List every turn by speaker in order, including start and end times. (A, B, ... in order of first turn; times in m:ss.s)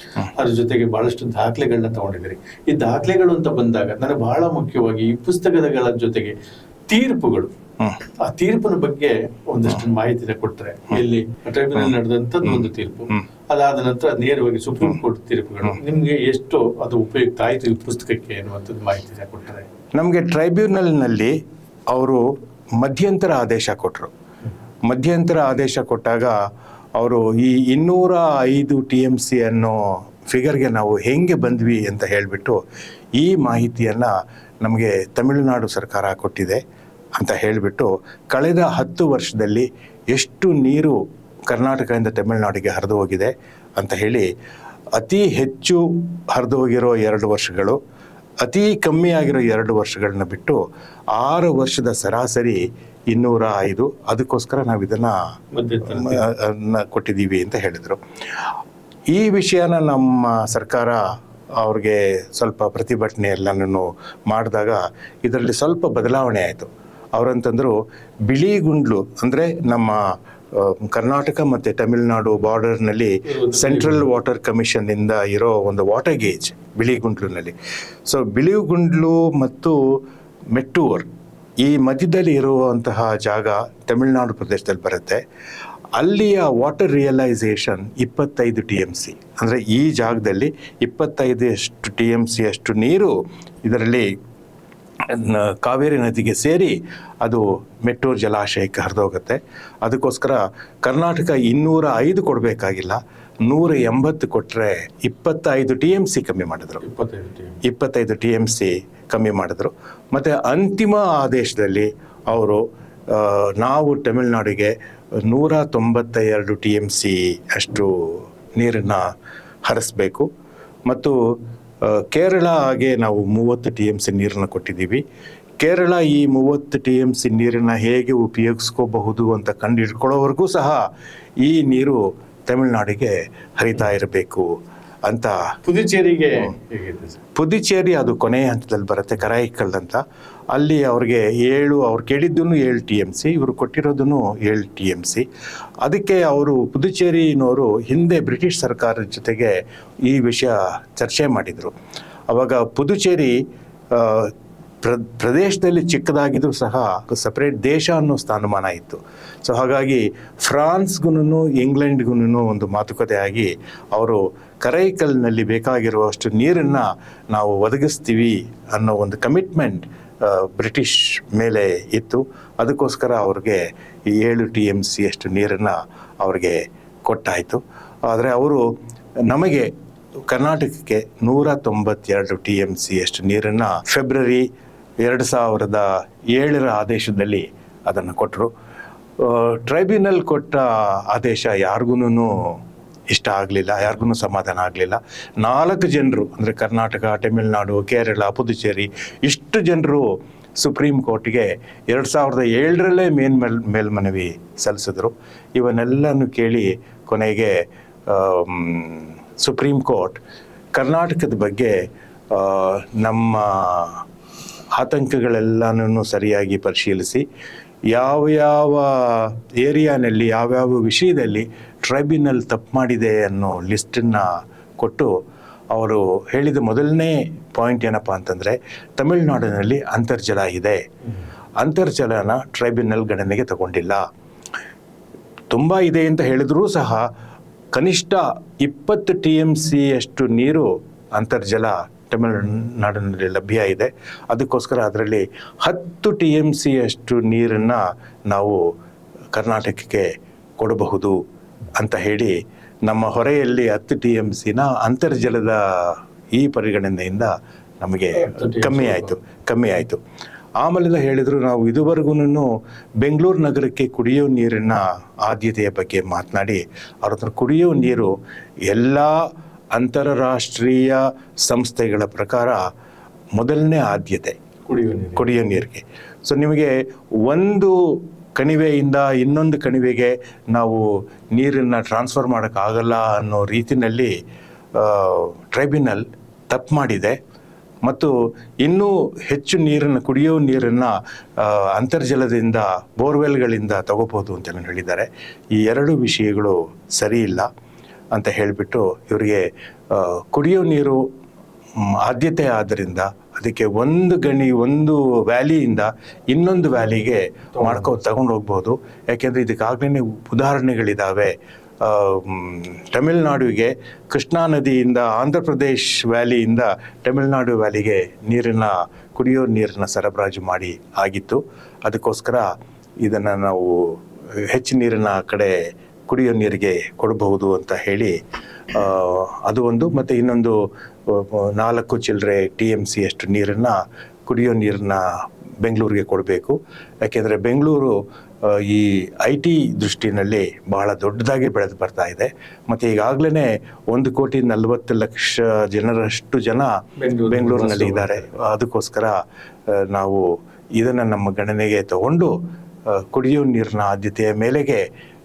0:00.2-0:06.3 A
0:06.9-0:07.5 A
0:08.2-0:19.7 A
0:12.4-0:13.2 B
0:20.0-0:21.3 B
0:21.9-0:22.2 B
0:22.8-0:24.1 B
0:24.9-0:26.4 B
0:27.0-0:32.6 B
0:33.2-0:34.1 B
0:34.6-0:36.6 B
0:37.2-0:41.0 B
0:41.5-0:44.3 B
0:45.0-0:47.8 B
0:48.4-0:50.6 B
0:51.1-0:55.2 B
0:55.5-0:56.2 A
0:55.9-0:58.0 B
0:59.1-1:01.0 B
1:01.6-1:07.8 B
1:08.3-1:10.0 B
1:10.5-1:17.5 B
1:13.3-1:14.0 A
1:18.1-1:19.8 B
1:20.5-1:21.1 B
1:21.6-1:25.2 B
1:26.0-1:34.1 B
1:35.1-1:46.8 B
1:46.8-1:47.6 A
1:47.6-1:54.7 B
1:55.3-1:59.0 B
1:59.7-2:00.3 B
2:00.9-2:01.2 B
2:01.8-2:05.0 B
2:05.6-2:10.8 B
2:11.4-2:14.5 B
2:15.1-2:15.4 B
2:15.6-2:17.2 A
2:17.4-2:25.2 B
2:25.8-2:29.6 B
2:30.1-2:31.7 B
2:32.3-2:33.4 B
2:33.9-2:58.6 B
2:59.3-2:59.7 B
3:00.3-3:04.4 B
3:05.0-3:08.5 B
3:09.2-3:12.6 B
3:13.1-3:20.1 B
3:20.6-3:27.5 B
3:28.1-3:30.2 B
3:30.8-3:31.7 B
3:32.3-3:34.0 B
3:34.8-3:37.2 B
3:37.9-3:45.1 B
3:45.7-3:50.8 B
3:51.6-3:54.0 B
3:55.5-3:57.0 B
3:57.7-4:08.6 B
4:09.3-4:10.1 B
4:10.6-4:11.2 B
4:11.8-4:12.3 B
4:12.8-4:20.0 B
4:18.2-4:19.1 A
4:20.6-4:22.5 B
4:23.0-4:28.1 B
4:28.7-4:29.1 B
4:29.7-4:32.6 B
4:33.4-4:34.4 B
4:34.7-4:35.3 A
4:35.2-4:36.7 B
4:37.2-4:37.8 B
4:38.4-4:40.8 B
4:41.4-4:44.1 B
4:44.8-4:47.2 B
4:47.9-4:57.5 B
4:58.1-5:01.0 B
5:01.8-5:22.5 B
5:23.0-5:25.5 B
5:26.1-5:28.2 B
5:28.7-5:30.6 B
5:31.1-5:33.8 B
5:34.3-5:35.0 B
5:35.6-5:38.0 B
5:38.5-5:46.7 B
5:47.0-5:48.2 A
5:47.3-5:49.1 B
5:49.8-5:50.2 B
5:50.8-5:52.3 B
5:52.9-5:54.8 B